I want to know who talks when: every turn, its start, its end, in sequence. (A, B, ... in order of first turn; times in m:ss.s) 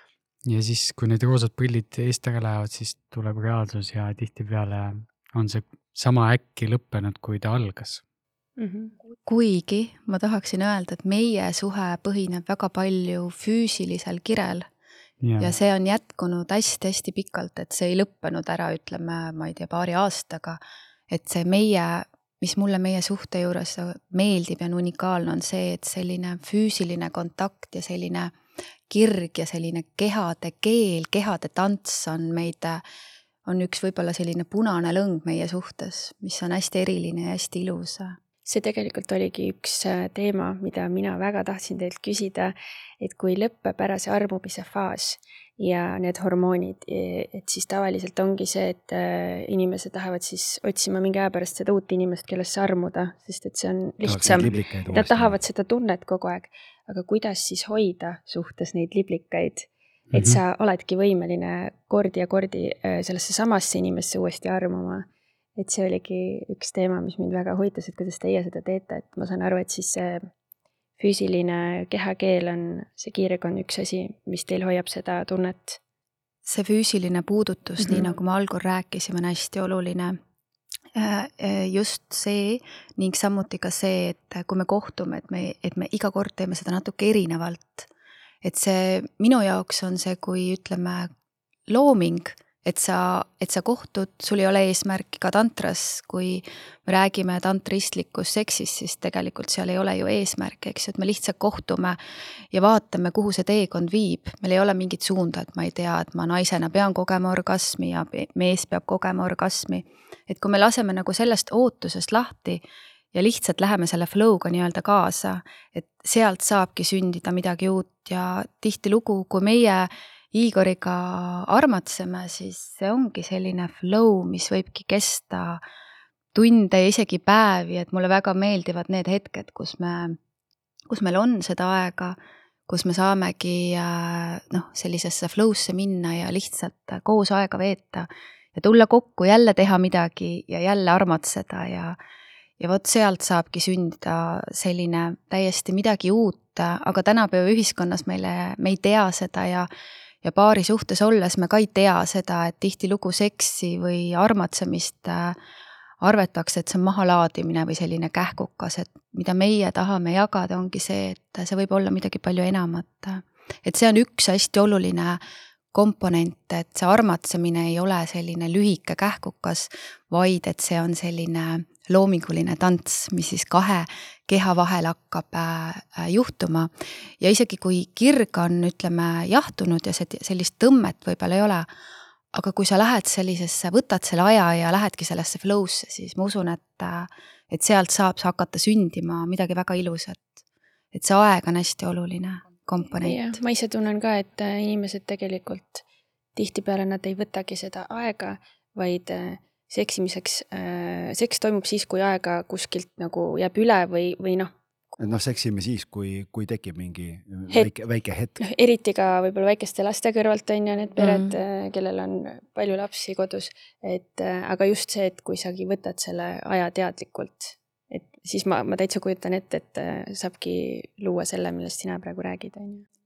0:00.5-0:08.0 A
0:08.6-0:08.9 B
0:09.3-0:14.7 C
0:15.2-0:15.6 A
0:15.4-0:28.4 C
0:28.9-0:32.8 C
0:33.5-0:38.2 C
0:38.4-1:10.3 B
0:54.0-0:55.4 D
1:00.1-1:00.4 A
1:11.0-1:15.8 B
1:16.5-1:20.2 C
1:21.0-1:27.9 C
1:28.4-1:31.1 C
1:31.7-1:42.0 C
1:42.5-1:52.6 C
1:53.1-2:05.6 C
2:06.3-2:10.2 C
2:10.9-2:12.2 C
2:12.7-2:22.0 C
2:22.6-2:29.7 C
2:30.2-2:35.4 C
2:36.0-2:45.2 C
2:45.7-3:01.7 C
3:02.3-3:10.4 C
3:10.9-3:13.4 C
3:13.0-3:15.8 B
3:16.4-3:24.5 B
3:25.0-3:28.4 D
3:28.4-3:42.8 B
3:31.0-3:31.4 C